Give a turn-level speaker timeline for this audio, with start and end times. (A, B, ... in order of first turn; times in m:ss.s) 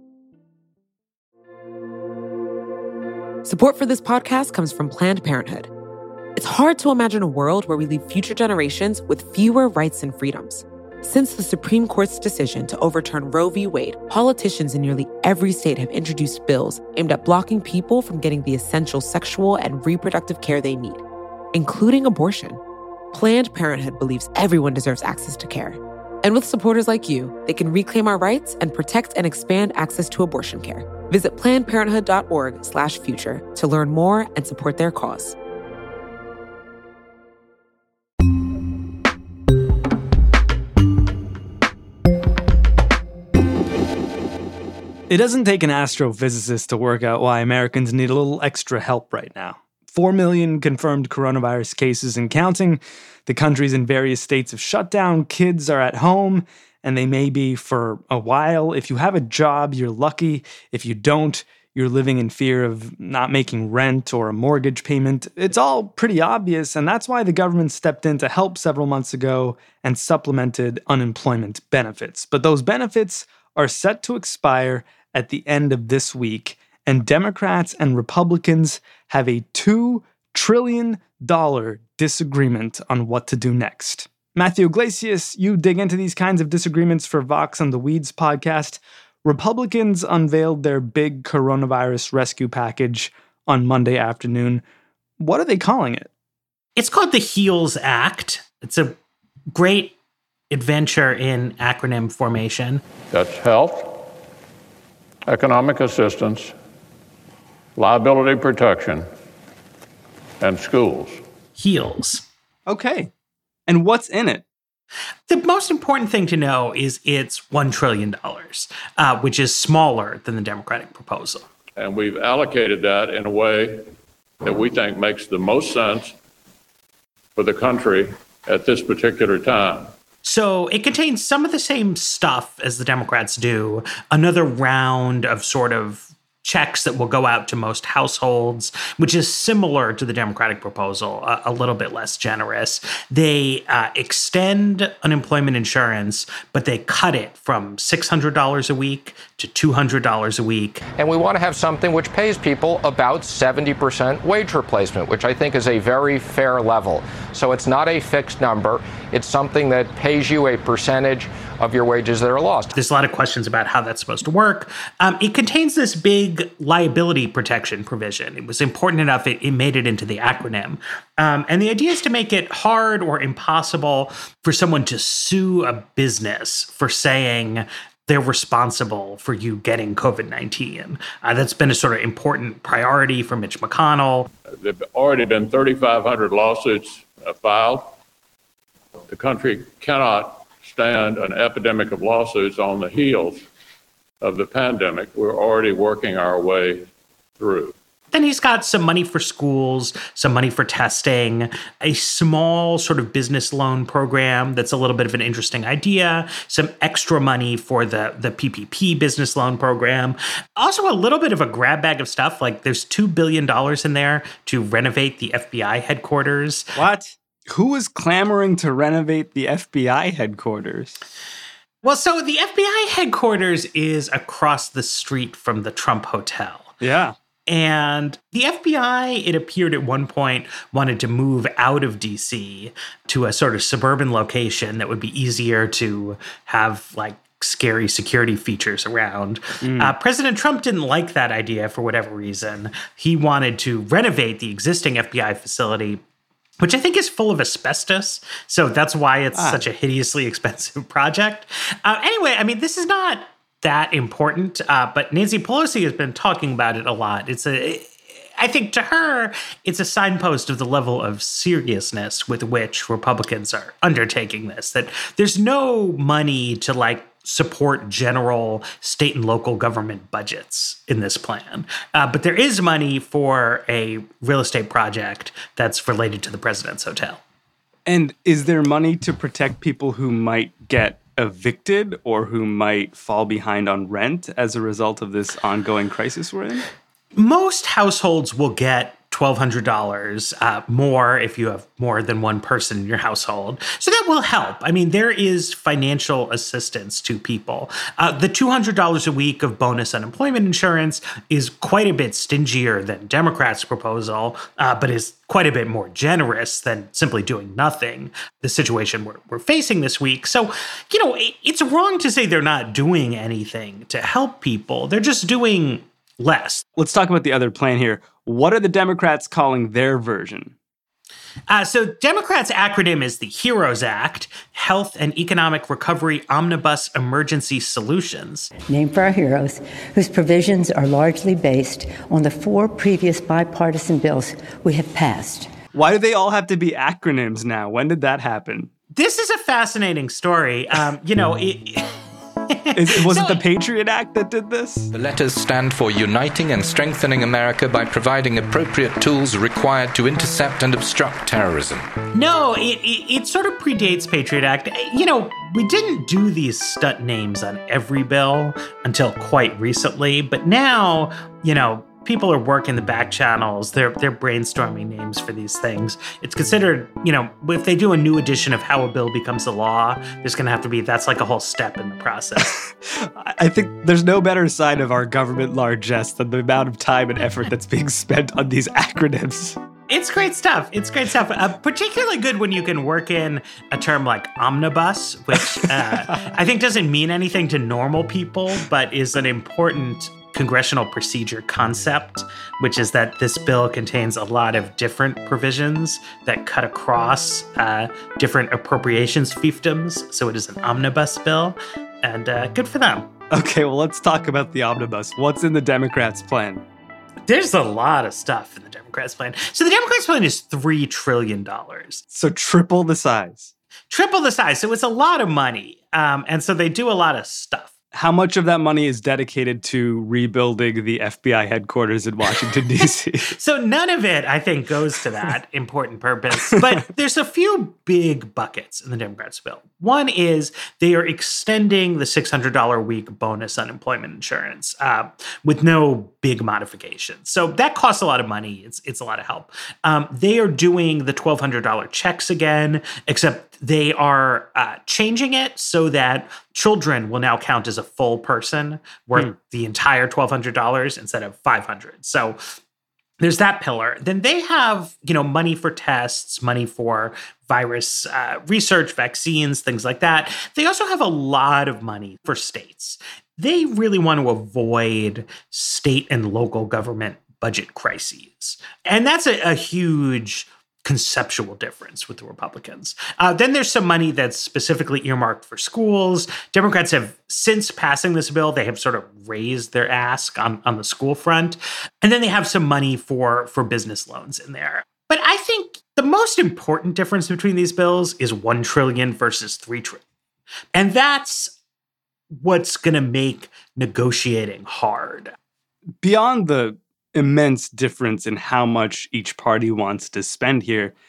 0:03.4-0:05.7 A
0:06.4-0:22.6 A
0:23.1-0:35.4 A
0:45.1-1:34.6 B
1:35.2-1:36.1 B
1:36.8-1:39.0 C
1:39.5-1:39.9 C
1:40.5-1:42.8 C
1:43.1-1:44.0 D
1:45.3-1:46.5 D
1:47.8-1:49.0 D
1:50.4-1:51.2 D
1:51.6-1:52.2 C
1:52.7-1:53.1 E
1:53.7-1:54.4 E
1:55.3-2:01.4 C
2:01.8-2:03.8 D
2:04.4-2:06.1 D
2:07.4-2:09.9 D
2:10.2-2:30.8 C
2:31.0-2:42.7 F
2:42.7-3:04.3 C
3:04.5-3:08.0 D
3:09.1-3:13.4 D
3:14.2-3:17.7 D
3:18.1-3:36.7 C
3:36.8-3:41.0 E
3:41.8-3:46.8 C
3:46.8-3:47.1 E
3:47.5-4:06.0 C
3:59.6-3:59.9 E
4:06.6-4:37.2 C
4:09.3-4:09.6 E
4:37.8-4:46.6 E
4:47.2-5:16.6 C
5:16.8-5:20.5 E
5:21.5-5:28.5 C
5:28.7-5:35.5 G
5:35.7-5:38.7 E
5:38.9-5:41.9 C
5:42.5-5:43.4 C
5:42.8-5:44.9 E
5:44.9-5:51.9 H
5:52.1-6:12.5 C
6:12.4-6:19.6 E
6:19.9-6:43.1 C
6:25.4-6:26.1 E
6:43.3-6:46.6 E
6:47.2-6:52.0 C
6:52.1-6:53.5 E
6:53.9-6:57.7 C
6:57.9-7:03.3 E
7:03.3-7:32.4 C
7:33.2-8:10.0 C
8:10.7-8:11.5 C
8:12.4-8:15.3 C
8:16.0-8:20.9 E